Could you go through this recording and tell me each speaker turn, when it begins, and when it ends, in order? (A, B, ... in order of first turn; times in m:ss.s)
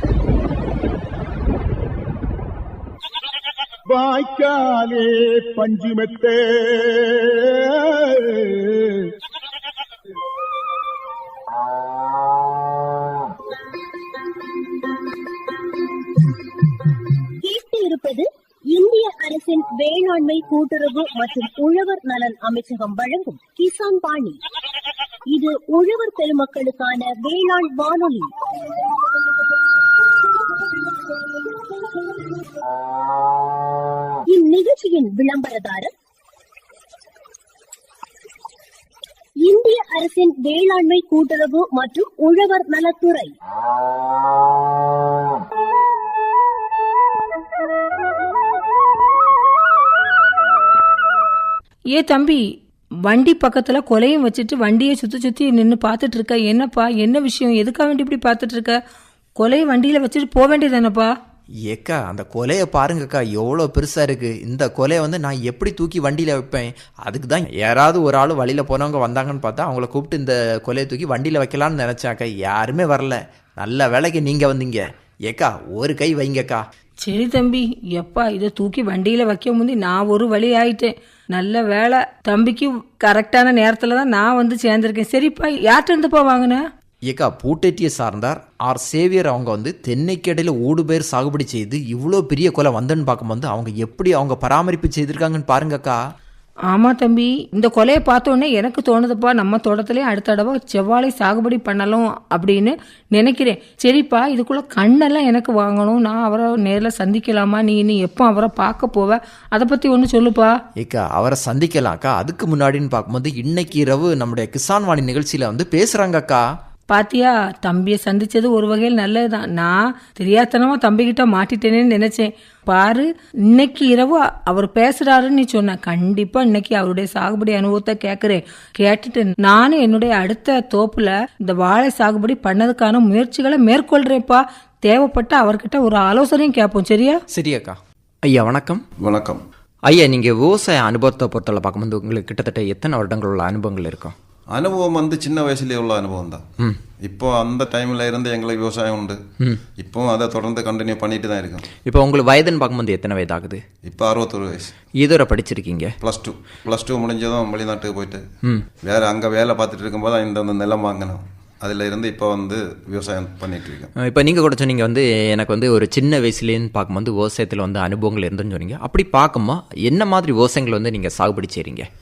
0:03.9-0:09.1 A
0:17.4-0:24.4 B
0:25.3-0:28.3 B
0:34.3-0:35.9 B
0:39.4-0:43.3 B
0:51.9-0:52.4 C
0:53.1-0:58.8 C
0:59.4-1:01.1 C
1:01.7-1:16.6 D
1:17.0-1:26.6 C
1:27.1-1:36.0 D
1:36.7-1:50.6 C
1:50.8-1:56.4 D
1:56.9-2:17.2 C
2:17.3-2:18.8 D
2:19.0-2:19.4 E
2:19.9-2:24.1 D
2:24.5-2:26.4 E
2:27.0-2:29.2 E
2:29.8-2:31.7 E
2:31.8-2:33.6 D
2:33.8-2:34.7 E
2:35.0-2:35.9 D
2:36.0-2:38.2 E
2:38.8-2:43.9 E
2:44.0-2:51.9 D